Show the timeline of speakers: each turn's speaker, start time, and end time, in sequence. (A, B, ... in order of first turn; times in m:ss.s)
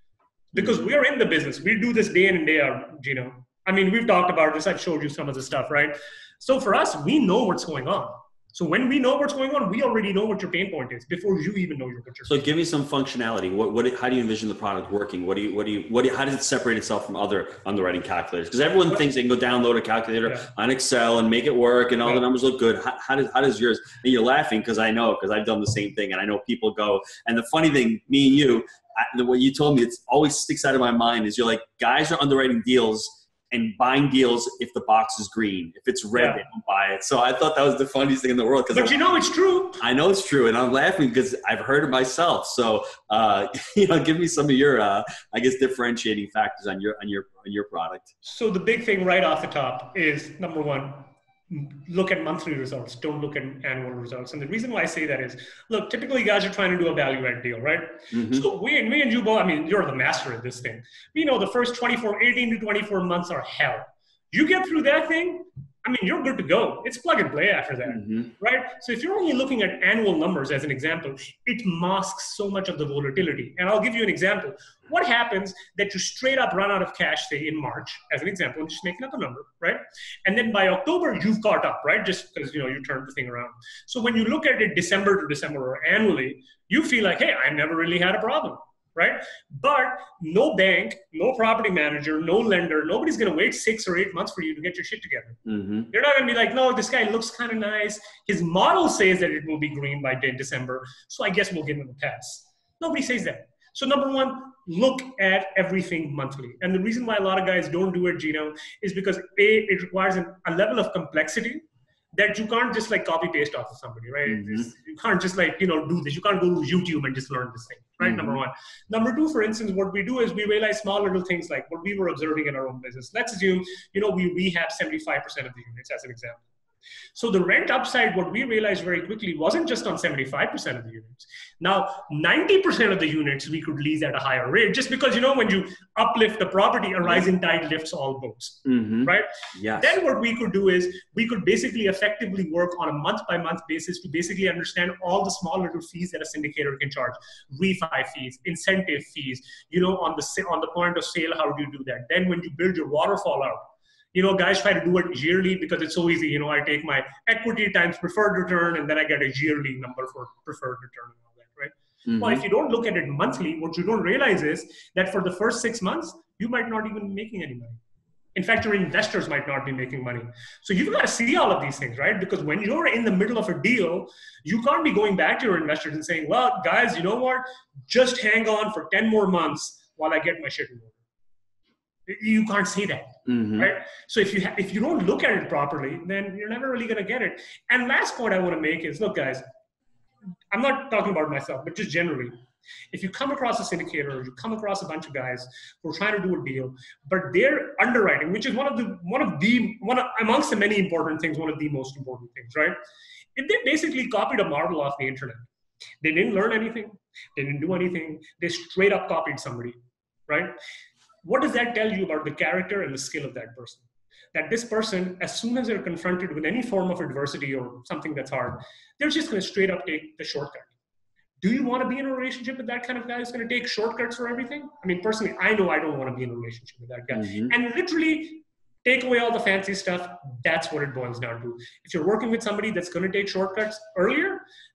0:00.5-0:12.4 A
0:00.6-0:00.8 B
0:12.3-0:39.0 B
0:36.1-0:36.4 A
0:38.7-0:39.8 A
0:39.8-0:48.1 B
0:48.2-1:35.4 A
0:58.1-0:58.4 B
1:07.9-1:08.3 B
1:35.4-1:35.9 B
1:35.9-1:51.6 A
1:52.1-2:06.4 A
1:54.3-1:54.7 B
1:58.0-1:58.4 B
2:07.1-2:47.8 A
2:18.6-2:20.0 B
2:42.1-2:42.4 B
2:48.3-3:01.0 A
3:02.1-3:09.4 A
3:03.3-3:03.7 B
3:10.5-3:12.3 A
3:12.9-3:22.8 A
3:23.4-3:25.5 A
3:26.0-3:30.5 A
3:31.2-3:40.7 A
3:41.4-3:54.4 A
3:47.1-3:47.5 B